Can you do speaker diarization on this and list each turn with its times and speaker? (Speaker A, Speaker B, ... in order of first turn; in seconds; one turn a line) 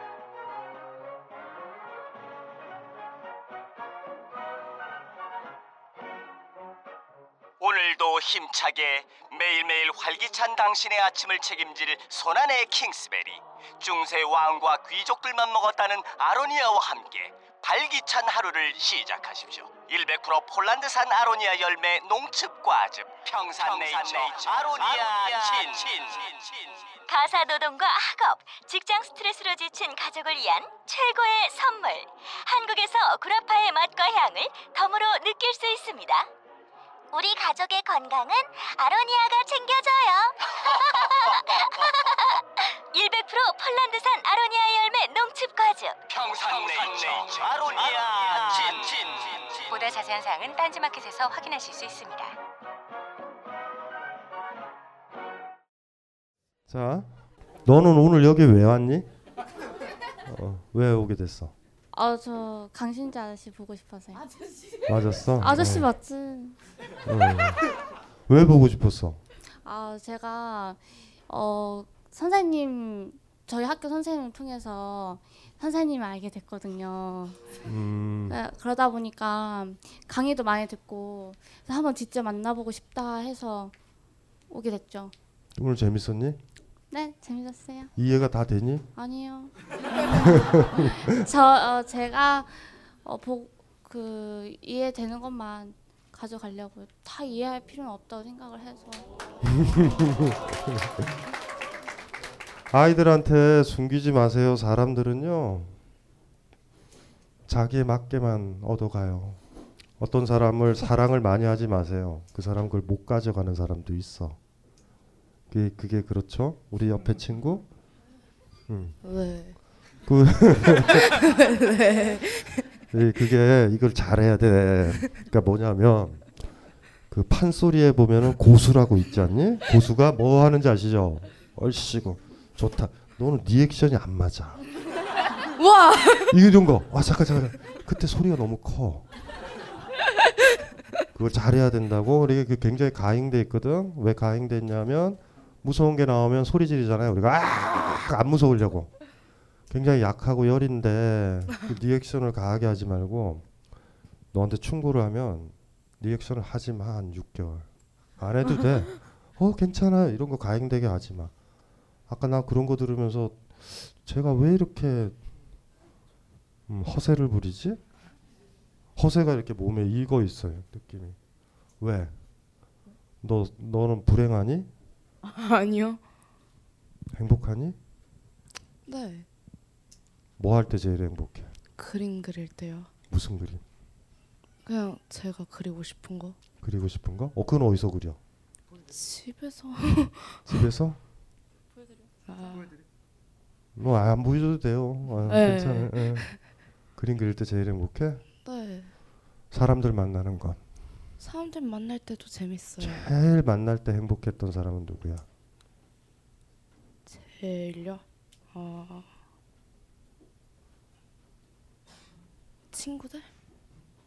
Speaker A: 7.6-26.7
Speaker B: 27.1-36.3
Speaker B: 37.1-46.0
Speaker A: 46.1-49.7
Speaker C: 49.7-52.4
Speaker D: 56.7-57.1
Speaker D: 57.6-59.1
Speaker D: 60.2-61.5
Speaker E: 61.9-64.3
Speaker D: 64.8-65.9
Speaker E: 65.4-66.6
Speaker D: 67.0-67.6
Speaker D: 68.3-69.2
Speaker E: 69.6-77.5
Speaker D: 77.6-78.4
Speaker E: 78.3-83.7
Speaker E: 84.5-85.1
Speaker D: 85.5-86.4
Speaker E: 86.9-87.9
Speaker D: 88.0-88.8
Speaker E: 89.0-99.1
Speaker D: 90.3-90.9
Speaker D: 99.5-100.4
Speaker D: 102.7-105.7
Speaker D: 107.5-109.4
Speaker D: 110.0-114.4
Speaker D: 115.5-117.7
Speaker D: 118.7-119.0
Speaker F: 119.0-119.6
Speaker D: 120.0-121.0
Speaker F: 121.1-122.6
Speaker D: 122.9-126.2
Speaker D: 127.1-134.6
Speaker F: 135.6-136.3
Speaker D: 136.3-139.0
Speaker D: 141.1-148.9
Speaker D: 149.7-153.4
Speaker D: 154.3-157.7
Speaker D: 158.2-161.3
Speaker D: 162.1-165.1
Speaker D: 166.7-167.8
Speaker D: 168.9-171.2
Speaker D: 171.8-172.1
Speaker D: 173.2-174.7
Speaker F: 175.2-176.0
Speaker D: 177.1-177.8
Speaker F: 178.8-179.3
Speaker D: 180.4-181.5
Speaker F: 181.8-182.9
Speaker D: 183.1-183.6
Speaker F: 184.6-186.3
Speaker D: 186.6-188.2
Speaker F: 188.9-190.5
Speaker D: 190.5-191.0
Speaker F: 192.2-192.7
Speaker D: 193.8-196.3
Speaker F: 195.2-196.4
Speaker D: 196.9-198.2
Speaker F: 198.4-198.9
Speaker D: 199.5-200.6
Speaker F: 201.2-203.1
Speaker D: 202.8-205.2
Speaker F: 207.1-209.1
Speaker F: 212.7-213.3